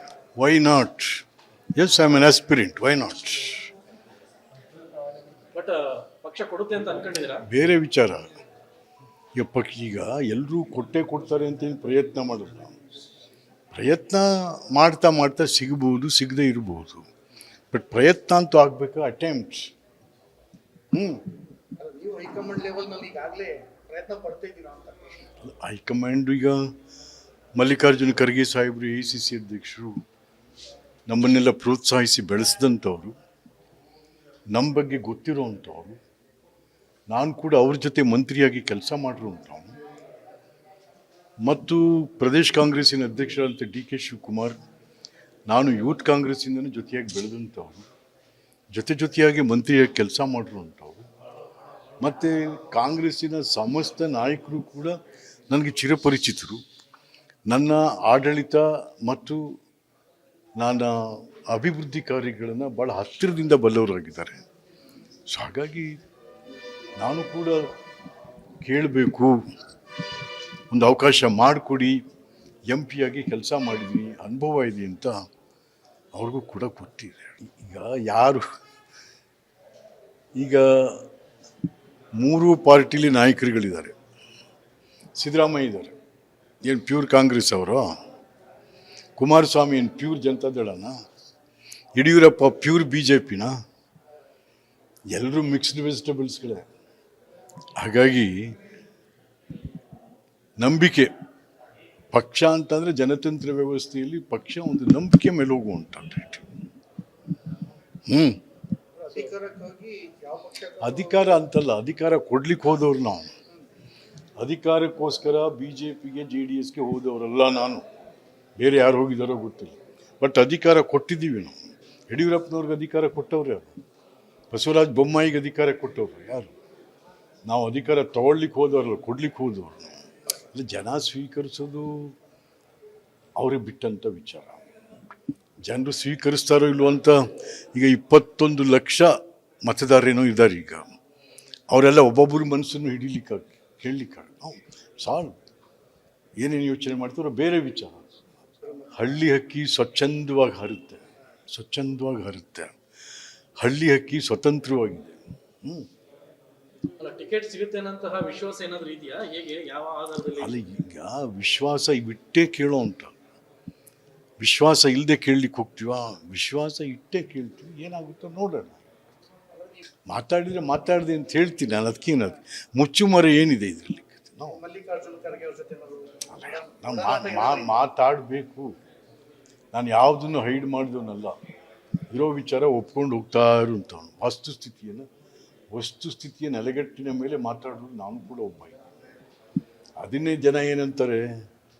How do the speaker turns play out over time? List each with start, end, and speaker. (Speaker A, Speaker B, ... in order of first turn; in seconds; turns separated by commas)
Speaker A: 0.4-1.2, Speaker A: 1.7-3.7, Speaker B: 5.5-7.4, Speaker A: 7.4-8.3, Speaker A: 9.3-12.8, Speaker A: 13.7-17.1, Speaker A: 17.7-19.7, Speaker A: 20.9-21.3, Speaker C: 21.8-25.3, Speaker A: 25.4-26.6, Speaker A: 27.6-30.0, Speaker A: 31.1-33.1, Speaker A: 34.5-36.0, Speaker A: 37.1-39.8, Speaker A: 41.4-44.6, Speaker A: 45.5-47.9, Speaker A: 48.7-51.0, Speaker A: 52.0-55.0, Speaker A: 55.5-56.6, Speaker A: 57.5-59.4, Speaker A: 60.6-64.4, Speaker A: 65.3-65.9, Speaker A: 67.0-67.6, Speaker A: 68.6-69.4, Speaker A: 70.7-72.0, Speaker A: 72.7-75.1, Speaker A: 76.1-78.4, Speaker A: 80.4-81.1, Speaker A: 82.2-83.9, Speaker A: 85.2-85.9, Speaker A: 86.6-87.9, Speaker A: 89.2-90.9, Speaker A: 92.0-93.5, Speaker A: 95.1-96.7, Speaker A: 97.8-98.6, Speaker A: 100.6-101.1, Speaker A: 102.1-106.5, Speaker A: 108.1-108.4, Speaker C: 109.0-111.4, Speaker A: 110.8-113.3, Speaker A: 114.4-117.8, Speaker A: 118.6-121.6, Speaker A: 122.1-123.7, Speaker A: 124.5-126.5, Speaker A: 127.5-129.9, Speaker A: 130.5-132.1, Speaker A: 133.4-134.6, Speaker A: 135.6-140.9, Speaker A: 141.7-145.4, Speaker A: 146.4-148.2, Speaker A: 148.9-152.8, Speaker A: 153.6-155.9, Speaker B: 157.0-160.5, Speaker A: 160.3-163.2, Speaker A: 164.4-168.8, Speaker C: 169.6-169.8, Speaker A: 170.1-174.6, Speaker C: 174.5-177.8, Speaker A: 176.3-178.7, Speaker A: 179.7-181.3, Speaker A: 182.1-185.1, Speaker A: 185.7-188.8, Speaker A: 190.0-191.3